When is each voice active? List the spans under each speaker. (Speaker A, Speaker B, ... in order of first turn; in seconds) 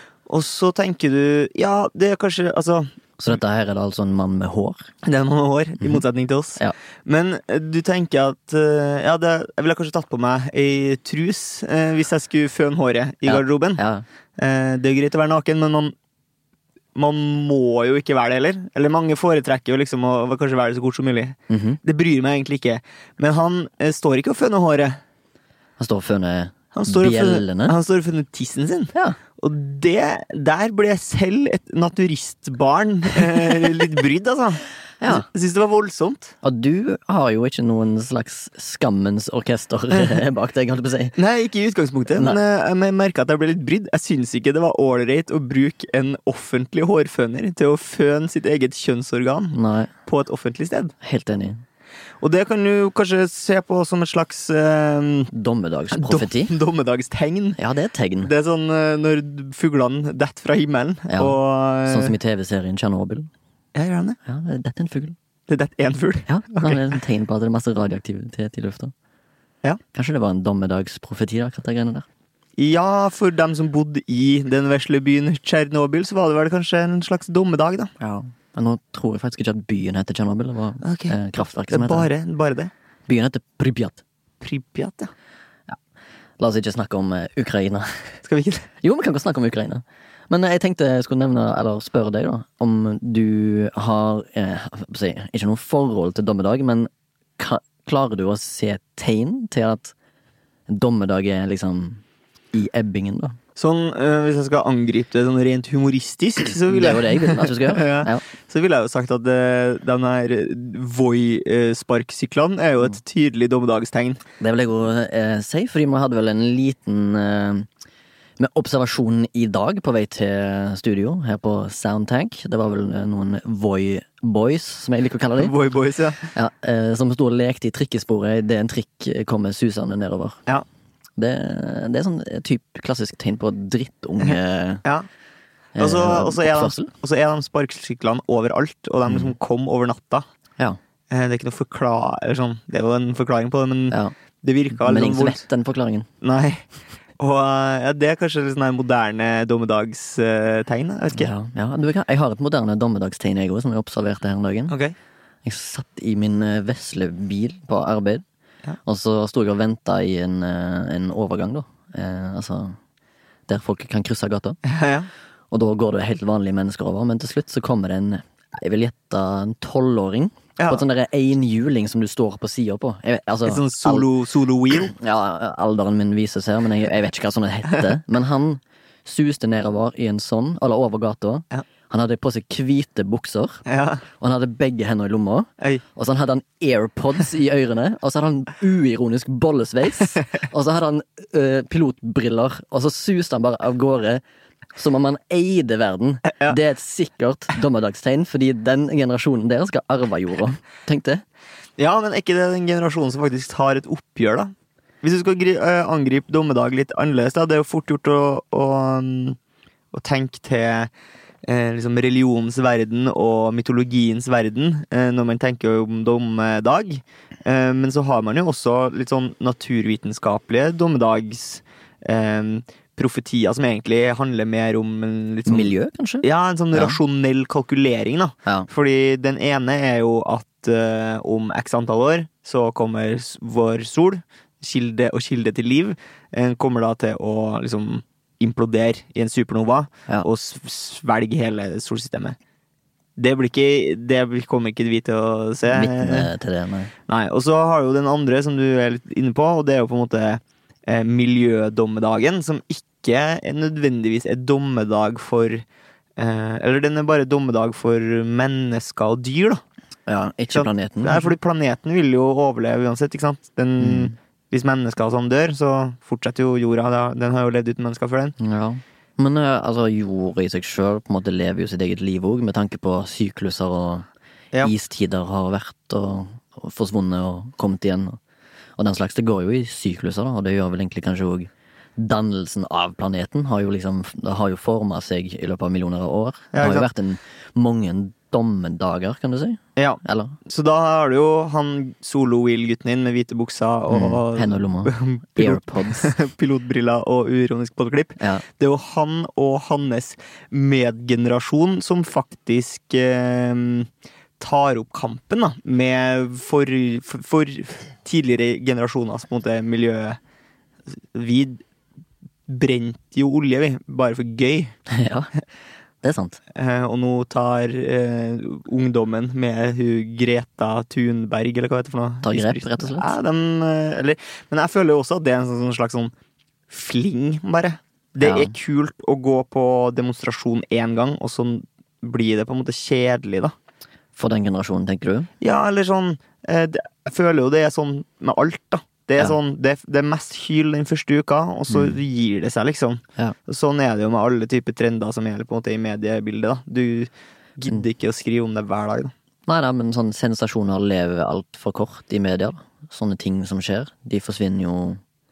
Speaker A: 0.3-2.9, 5.0-13.8, 14.4-15.9, 16.9-25.0, 26.7-36.3, 39.9-40.2, 41.2-49.5, 50.1-51.0, 52.2-55.3, 55.9-57.6, 58.2-62.1, 63.8-64.2, 65.5-66.9, 72.6-77.9, 80.8-81.2, 81.7-82.7, 84.4-85.1, 88.2-88.7, 103.6-114.2, 125.4-126.3, 135.8-140.2, 141.1-145.4, 146.2-146.7, 147.2-151.3, 154.7-154.9, 164.7-165.1, 173.5-174.9, 183.7-184.0, 201.8-209.4, 209.9-210.9, 211.4-242.4, 243.2-246.3, 247.1-255.7, 256.2-259.6, 260.5-268.4, 286.5-286.9, 289.8-310.2, 310.9-311.6, 312.5-314.8, 316.5-326.1, 326.7-333.5, 335.4-349.1
Speaker B: 3.2-4.9, 13.3-14.1, 21.5-21.8, 25.8-27.8, 35.0-35.3, 36.4-41.2, 42.1-42.4, 49.5-49.9, 51.0-51.6, 55.3-56.5, 57.6-58.3, 61.1-63.3, 64.2-65.2, 66.3-68.9, 69.9-72.1, 78.0-82.1, 83.1-84.0, 86.4-88.1, 88.8-99.9, 100.7-102.0, 102.5-103.4, 106.7-108.3, 114.4-117.7, 118.4-125.5, 126.3-130.4, 131.2-134.8, 135.8-136.9, 144.7-146.1, 151.1-154.7, 155.4-158.2, 158.8-162.8, 163.5-164.6, 165.5-174.1, 174.8-183.6, 184.2-194.2, 194.8-201.2, 225.5-227.0, 245.7-246.9, 260.1-261.4, 263.8-264.1, 268.4-274.1, 274.6-278.2, 278.8-290.4, 293.9-296.1, 298.2-298.4, 314.9-315.3, 316.0-316.4, 322.2-323.1, 328.2-328.5, 334.2-335.3, 341.7-342.0, 349.5-355.0